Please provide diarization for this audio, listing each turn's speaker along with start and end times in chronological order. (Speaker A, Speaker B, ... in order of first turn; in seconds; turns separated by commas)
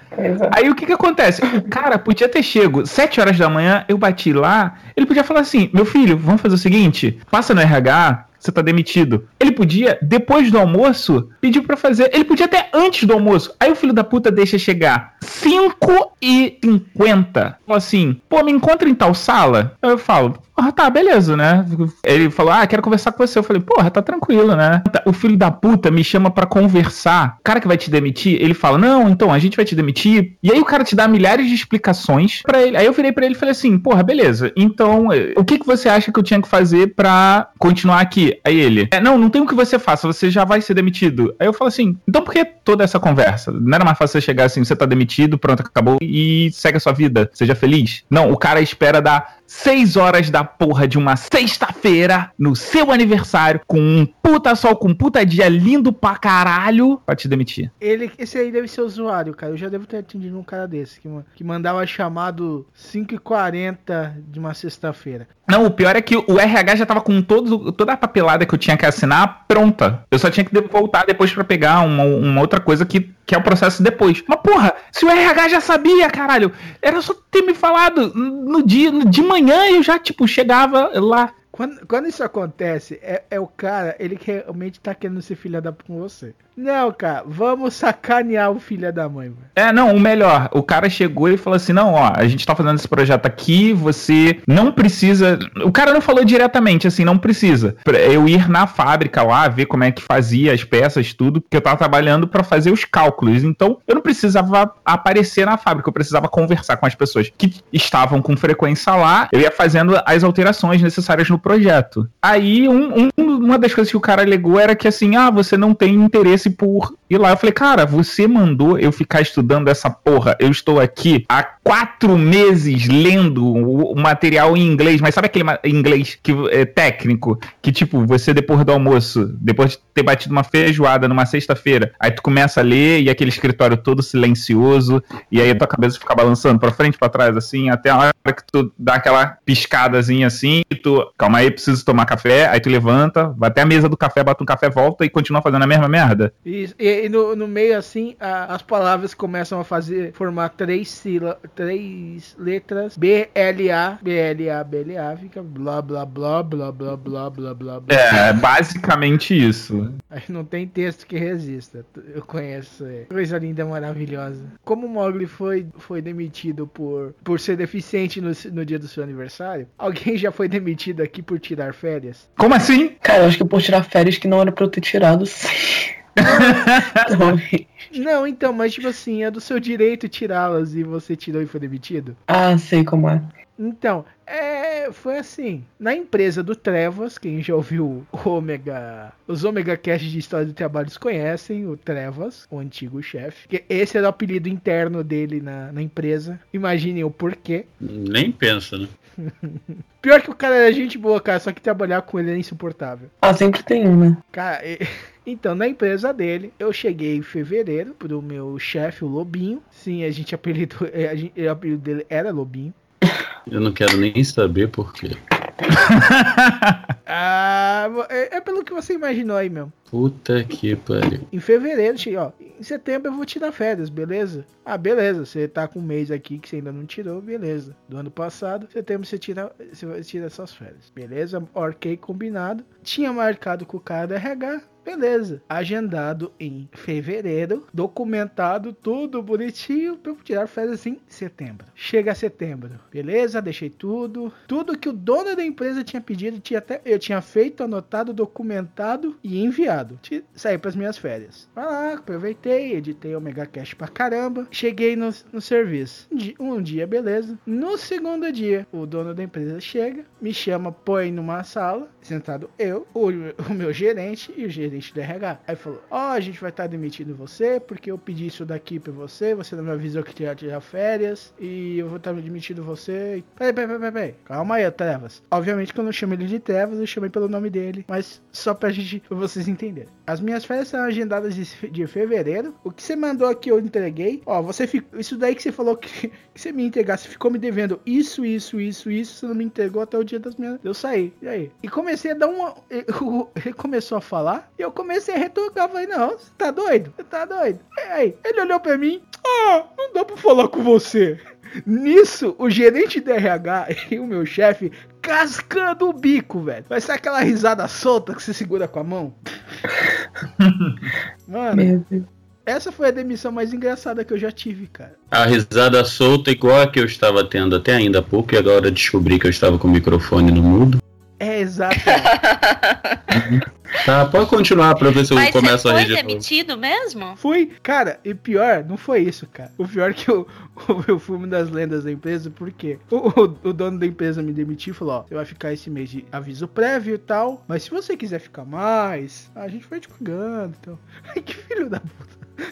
Speaker A: 0.2-0.6, Speaker B: 0.5-57.7, Speaker C: 57.8-65.3, Speaker B: 65.5-81.3, Speaker C: 81.5-89.5, Speaker B: 89.6-146.3, Speaker C: 146.4-158.3, Speaker B: 157.9-159.9, Speaker C: 160.1-172.3, Speaker B: 172.4-173.0, Speaker A: 173.0-177.7, Speaker B: 176.2-177.2, Speaker C: 177.9-182.2, Speaker A: 182.3-183.3, Speaker C: 183.6-197.7, Speaker D: 197.8-198.9, Speaker C: 199.2-203.1, Speaker A: 203.2-204.2, Speaker C: 204.3-212.8, Speaker D: 213.5-215.2, Speaker B: 215.8-216.8, Speaker C: 217.1-219.7, Speaker D: 219.9-221.3, Speaker C: 221.3-309.2, Speaker B: 310.4-310.8, Speaker C: 311.3-311.7, Speaker A: 311.5-312.1, Speaker C: 312.5-315.0, Speaker D: 315.1-320.8, Speaker C: 321.2-322.1, Speaker E: 321.9-323.0, Speaker D: 323.1-326.2, Speaker E: 325.1-327.2, Speaker C: 327.2-342.2